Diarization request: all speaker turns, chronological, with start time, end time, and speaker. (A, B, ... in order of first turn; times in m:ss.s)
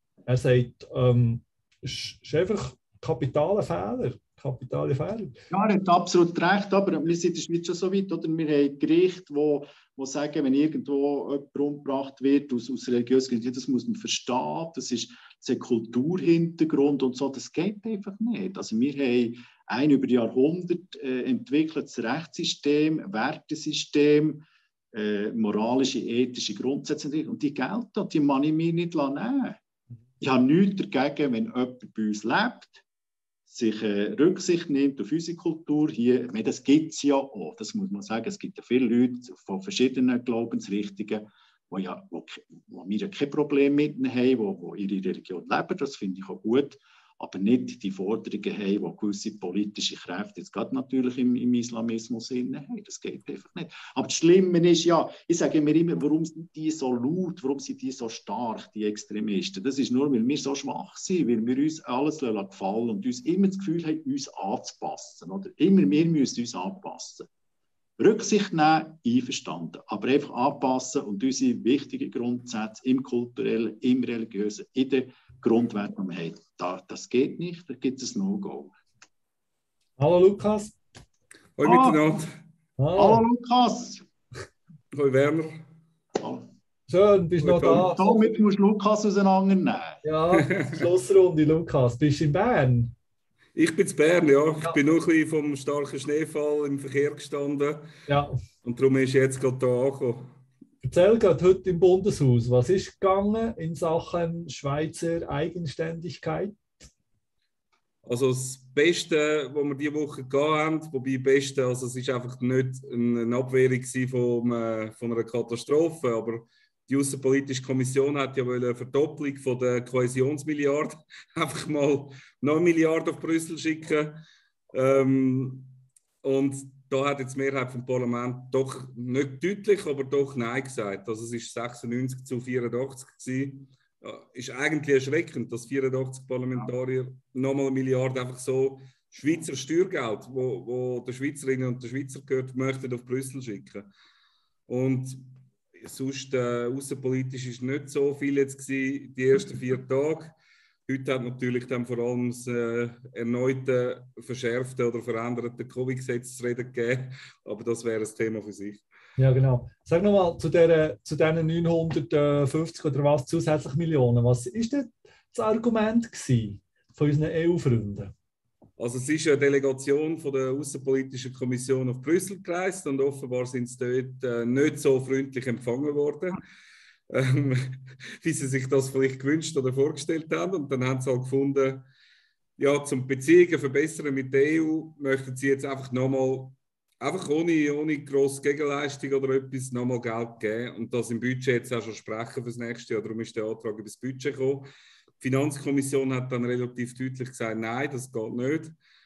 0:00.3-0:05.4 A
0:05.5-0:29.6 B
0:30.2-0:32.8 B
0:33.5-1:07.3 B
1:08.0-1:18.7 B
1:20.0-1:20.8 A
1:21.6-1:22.3 C
1:21.6-1:22.0 B
1:22.8-1:23.2 A
1:23.0-1:24.0 B
1:24.9-1:25.6 C
1:26.2-1:26.4 B
1:26.9-1:28.4 A
1:27.5-1:27.8 C
1:27.5-1:30.0 B
1:30.0-1:32.9 A
1:30.4-1:30.8 C
1:33.6-1:37.9 C
1:38.1-1:38.3 A
1:38.6-1:40.4 C
1:40.8-1:46.6 A
1:48.0-2:05.7 C
2:06.2-2:23.9 C
2:24.7-2:25.3 C
2:25.8-2:30.3 C
2:30.9-2:38.8 C
2:39.2-2:48.1 A
2:48.8-2:56.4 C
2:57.1-3:01.9 C
3:02.6-3:14.7 C
3:15.2-3:18.8 C